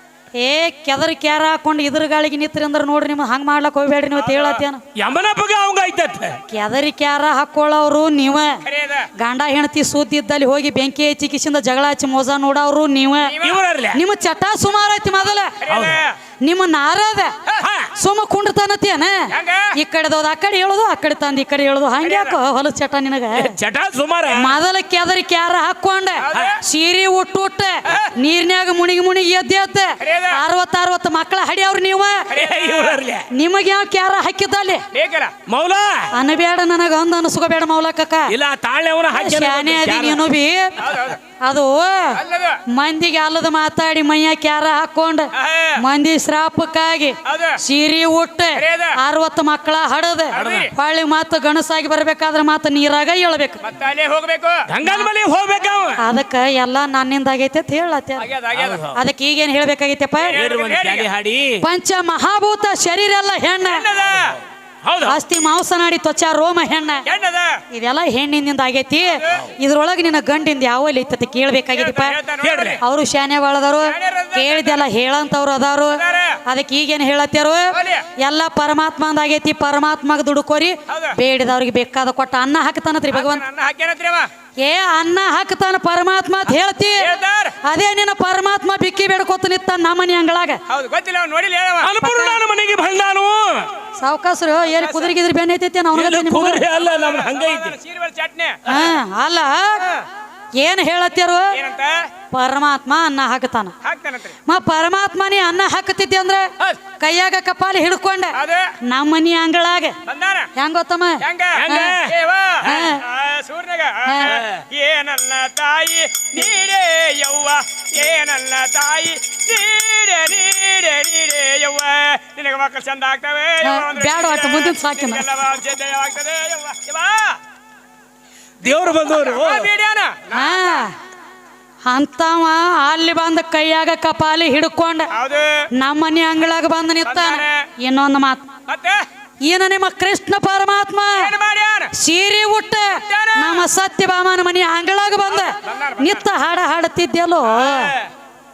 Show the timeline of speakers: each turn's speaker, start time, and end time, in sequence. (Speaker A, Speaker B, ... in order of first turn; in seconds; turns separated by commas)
Speaker A: 0.3-4.8, Speaker B: 4.2-4.6, Speaker C: 4.9-6.4, Speaker A: 6.5-8.6, Speaker B: 8.6-9.1, Speaker A: 9.1-13.4, Speaker B: 13.2-13.6, Speaker C: 13.4-14.0, Speaker A: 13.9-15.6, Speaker B: 15.6-16.1, Speaker C: 15.7-16.0, Speaker A: 16.4-17.3, Speaker C: 17.6-17.9, Speaker A: 17.9-23.6, Speaker B: 19.3-19.7, Speaker B: 22.0-22.3, Speaker C: 23.4-24.6, Speaker A: 24.3-32.3, Speaker B: 26.2-26.6, Speaker B: 30.0-30.4, Speaker B: 32.3-33.0, Speaker C: 32.3-33.3, Speaker A: 33.3-34.8, Speaker B: 34.9-35.3, Speaker C: 35.5-36.1, Speaker A: 36.1-38.3, Speaker C: 38.3-40.2, Speaker A: 39.1-40.8, Speaker B: 40.8-41.2, Speaker A: 41.4-53.6, Speaker B: 42.1-42.6, Speaker B: 45.4-45.8, Speaker B: 47.2-47.6, Speaker B: 48.5-49.0, Speaker B: 50.3-50.7, Speaker C: 50.4-50.7, Speaker B: 53.6-54.7, Speaker C: 54.7-56.0, Speaker A: 56.0-58.3, Speaker B: 58.2-58.9, Speaker C: 58.5-58.9, Speaker A: 58.9-60.4, Speaker B: 60.2-61.1, Speaker C: 60.3-61.6, Speaker A: 61.6-63.9, Speaker B: 63.7-64.4, Speaker C: 64.8-65.2, Speaker A: 65.0-67.0, Speaker B: 67.0-67.6, Speaker A: 67.7-72.2, Speaker B: 71.7-72.8, Speaker C: 72.4-72.8, Speaker A: 72.8-83.4, Speaker B: 73.8-74.8, Speaker B: 76.0-76.4, Speaker B: 77.7-78.0, Speaker B: 80.9-81.2, Speaker B: 83.1-84.3, Speaker A: 84.6-87.1, Speaker B: 87.0-87.6, Speaker A: 87.6-90.6, Speaker B: 90.7-91.9, Speaker C: 91.8-93.7, Speaker A: 92.0-92.4, Speaker A: 94.0-96.7, Speaker B: 94.8-95.1, Speaker C: 95.9-97.8, Speaker B: 96.8-98.6, Speaker A: 98.7-100.0, Speaker A: 100.6-101.6, Speaker B: 101.5-102.1, Speaker A: 102.3-103.7, Speaker B: 103.8-104.4, Speaker A: 104.5-110.0, Speaker B: 108.3-108.7, Speaker B: 110.1-110.5, Speaker A: 110.5-112.0, Speaker B: 111.2-127.4, Speaker C: 111.5-112.9, Speaker A: 112.6-113.0, Speaker A: 114.0-114.4, Speaker C: 114.3-114.6, Speaker A: 123.6-125.2, Speaker C: 128.6-129.7, Speaker B: 129.1-130.8, Speaker A: 130.3-130.9, Speaker A: 131.8-135.1, Speaker B: 135.1-135.7, Speaker A: 135.7-138.5, Speaker B: 137.1-137.7, Speaker B: 138.7-139.0, Speaker A: 139.4-141.3, Speaker B: 141.1-141.9, Speaker A: 141.9-148.0, Speaker B: 143.0-143.7, Speaker B: 145.3-146.2, Speaker B: 147.5-148.1